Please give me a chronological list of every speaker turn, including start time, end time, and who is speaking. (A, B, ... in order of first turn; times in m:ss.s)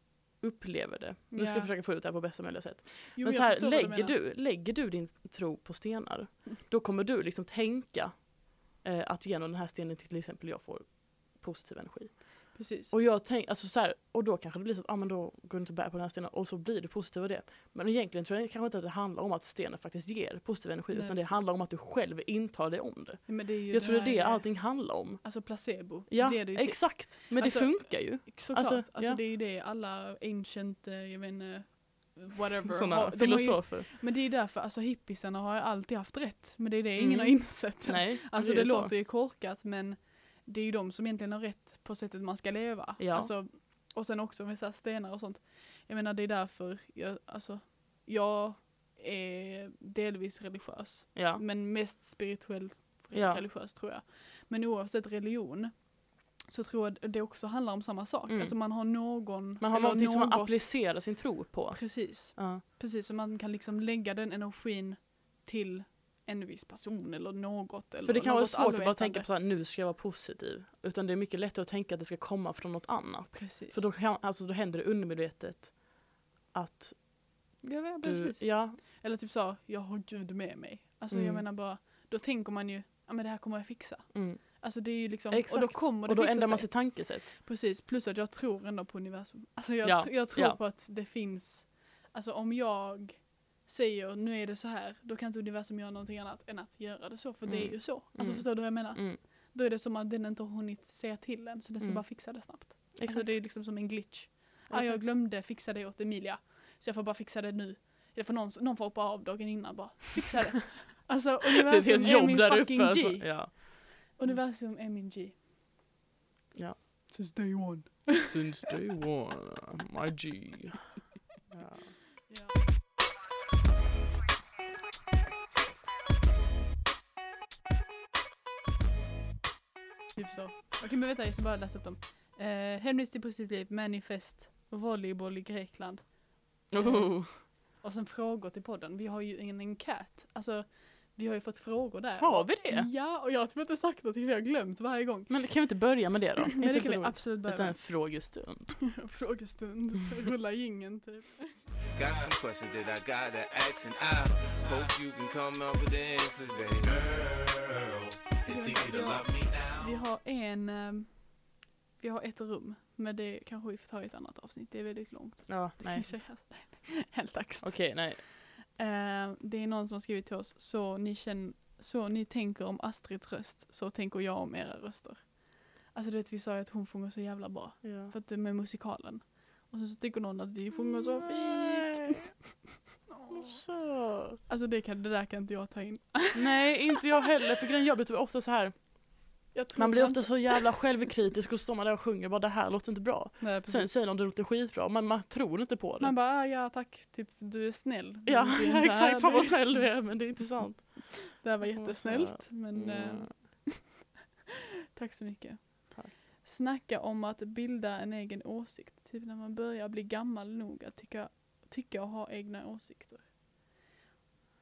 0:00.4-0:29.2 A
0:01.3-0:01.7 B
0:03.1-0:04.2 B
0:12.5-0:12.9 B
0:20.9-0:21.5 B
0:23.3-1:00.7 B
0:32.7-0:33.9 A
0:37.0-0:38.9 A
0:43.0-0:43.3 A
0:51.1-0:51.4 A
0:53.1-0:53.4 A
0:58.3-1:02.6 A
1:01.7-1:09.3 B
1:08.0-1:18.8 A
1:13.3-1:13.9 B
1:17.6-1:55.4 B
1:21.1-1:21.4 A
1:24.1-1:27.3 A
1:29.8-1:30.6 A
1:37.4-1:39.2 A
1:41.8-1:43.8 A
1:44.7-1:45.0 A
1:51.7-1:54.4 A
1:56.5-1:57.1 A
1:57.1-1:58.4 B
1:58.2-2:00.9 A
2:01.5-2:02.0 A
2:02.3-2:02.5 B
2:10.1-2:25.7 B
2:16.7-2:17.4 A
2:22.2-2:22.9 A
2:25.3-2:28.9 A
2:26.6-2:28.3 B
2:29.0-2:31.6 B
2:31.9-2:37.7 C
2:38.4-2:39.8 C
2:38.4-3:02.4 B
2:45.5-2:46.1 A
2:47.6-2:48.2 A
2:57.8-2:58.1 A
3:01.2-3:02.3 A
3:03.1-3:03.7 B
3:03.3-3:04.4 A
3:04.5-3:06.7 B
3:06.3-3:16.1 A
3:09.5-3:10.8 B
3:13.4-3:13.9 B
3:16.0-3:20.0 B
3:18.2-3:23.6 A
3:21.3-3:23.9 B
3:25.0-3:33.3 B